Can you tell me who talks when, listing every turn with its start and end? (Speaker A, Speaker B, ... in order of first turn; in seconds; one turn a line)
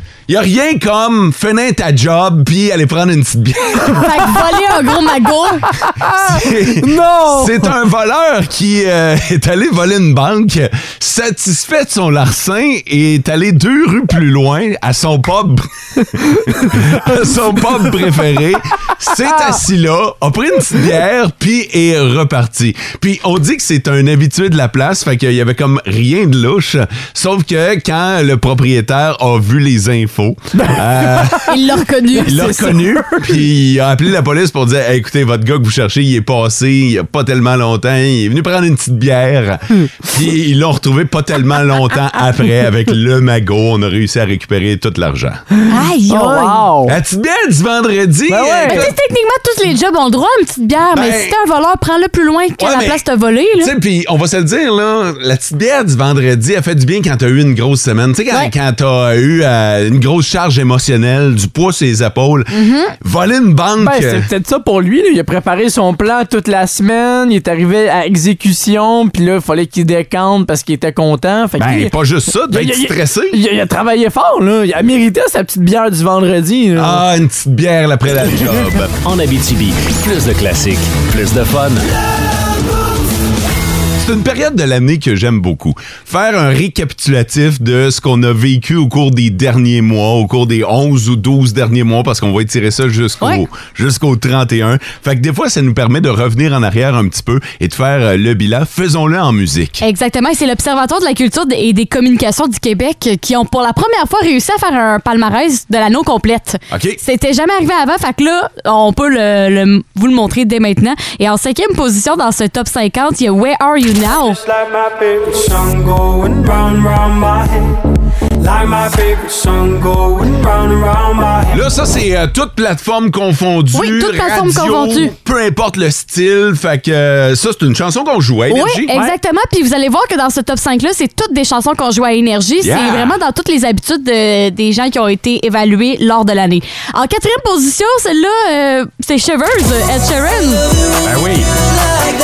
Speaker A: 0.3-4.3
Speaker B: 3.9-5.7
Speaker C: 5.9-7.7
Speaker A: 6.2-31.6
Speaker C: 30.6-31.5
Speaker B: 31.5-32.6
Speaker A: 32.2-45.4
Speaker C: 32.2-33.5
Speaker B: 45.7-46.6
Speaker C: 46.1-47.0
Speaker A: 46.9-49.0
Speaker C: 48.3-48.9
Speaker B: 48.7-53.7
Speaker A: 50.9-51.4
Speaker A: 52.6-53.0
Speaker A: 53.6-64.3
Speaker B: 62.5-62.9
Speaker C: 63.8-71.9
Speaker A: 71.6-73.4
Speaker C: 72.5-77.0
Speaker A: 76.8-78.9
Speaker D: 79.0-81.8
Speaker A: 84.0-99.8
Speaker B: 99.8-114.4
Speaker A: 106.7-107.0
Speaker E: 114.3-117.8
Speaker E: 118.4-121.7
Speaker A: 121.5-128.9
Speaker B: 123.7-125.1
Speaker B: 128.5-140.7
Speaker A: 132.6-133.2
Speaker A: 141.0-141.5